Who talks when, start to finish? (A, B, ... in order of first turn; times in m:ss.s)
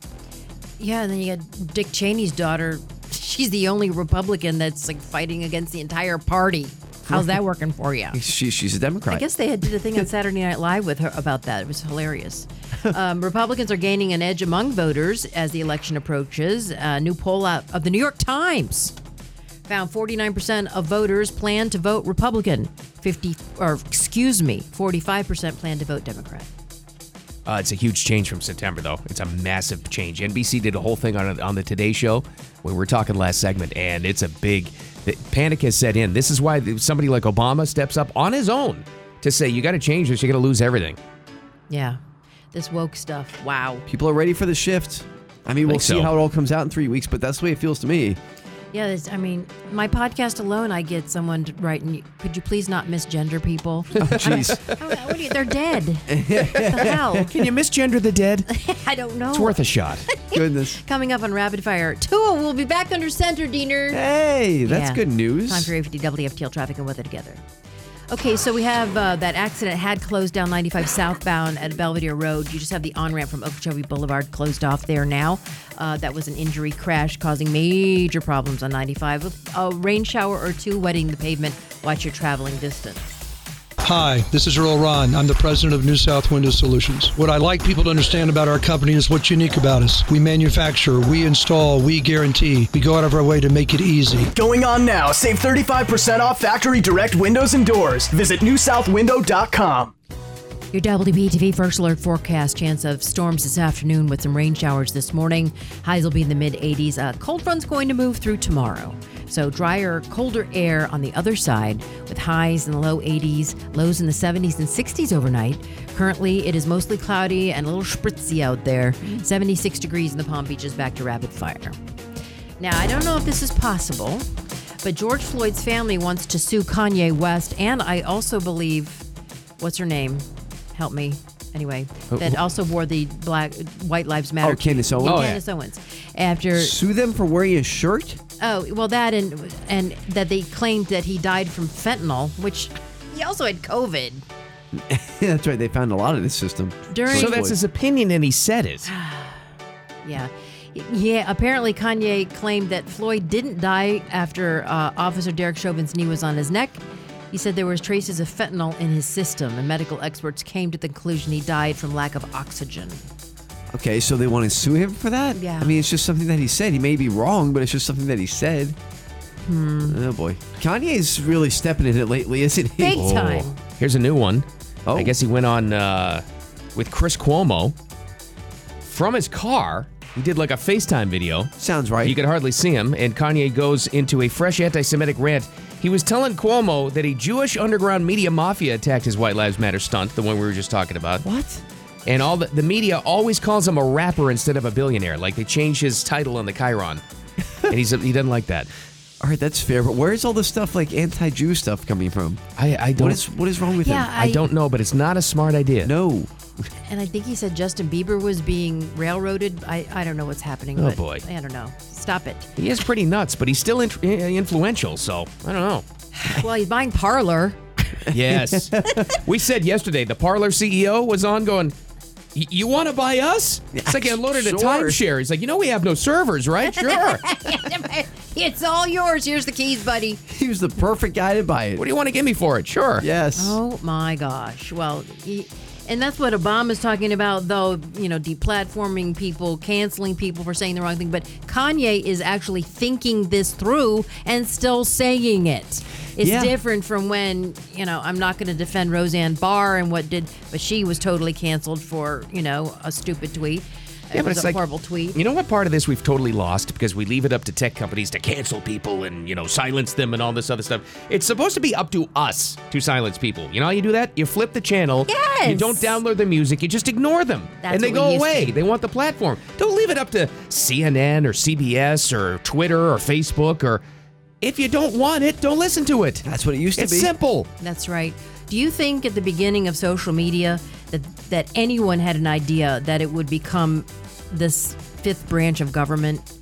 0:00.8-0:08.2 A
0:08.1-0:09.2 B
0:09.1-0:18.9 A
0:19.7-0:26.5 A
0:27.4-0:41.0 C
0:41.7-0:42.0 A
0:42.5-0:43.8 A
0:43.9-0:48.2 B
0:45.6-0:46.1 C
0:48.7-0:57.3 A
0:54.0-0:54.6 B
0:54.1-0:54.6 C
0:56.1-0:57.0 B
0:57.2-0:58.5 C
0:58.5-1:04.0 A
0:59.3-1:00.1 C
1:00.3-1:00.8 B
1:03.9-1:05.7 B
1:04.6-1:07.4 A
1:08.1-1:23.0 A
1:23.8-1:34.3 D
1:34.3-1:39.9 E
1:40.7-2:01.8 A
2:02.6-2:04.2 A
2:04.8-2:09.0 A
2:09.6-2:16.8 A
2:14.4-2:15.4 B
2:15.0-2:15.4 C
2:16.5-2:18.2 B
2:18.4-2:24.2 A
2:24.7-2:27.6 B
2:26.9-2:27.4 A
2:27.1-2:28.9 C
2:28.8-2:29.4 A
2:30.0-2:43.1 A
2:43.7-2:48.8 B
2:45.3-2:45.8 A
2:49.4-2:50.0 A
2:49.9-2:53.0 B
2:52.8-2:53.6 A
2:52.9-2:56.2 C
2:54.8-2:55.1 B
2:56.7-2:57.7 C
2:58.8-3:01.5 C
3:01.6-3:02.2 B
3:02.0-3:11.2 C
3:11.2-3:11.6 B
3:12.0-3:17.0 C
3:17.7-3:18.7 C
3:19.2-3:22.4 B
3:22.6-3:23.2 C
3:23.0-3:24.1 B
3:23.8-3:24.5 A
3:24.1-3:25.9 C
3:25.8-3:26.3 B
3:26.8-3:32.5 A
3:30.8-3:31.2 C
3:32.6-3:35.8 C
3:36.1-3:37.6 A
3:38.1-3:41.7 C
3:38.1-3:39.0 B
3:42.3-3:47.2 C
3:43.8-3:45.0 B
3:46.8-3:50.2 A
3:50.3-3:51.8 B
3:51.8-3:53.0 C
3:53.0-3:53.6 B
3:53.4-4:15.2 A
4:06.2-4:06.5 B
4:14.1-4:14.6 C
4:15.1-4:33.8 C
4:25.1-4:26.0 A
4:27.6-4:28.6 A
4:34.4-4:37.5 C
4:36.2-4:37.1 B
4:37.6-4:46.2 A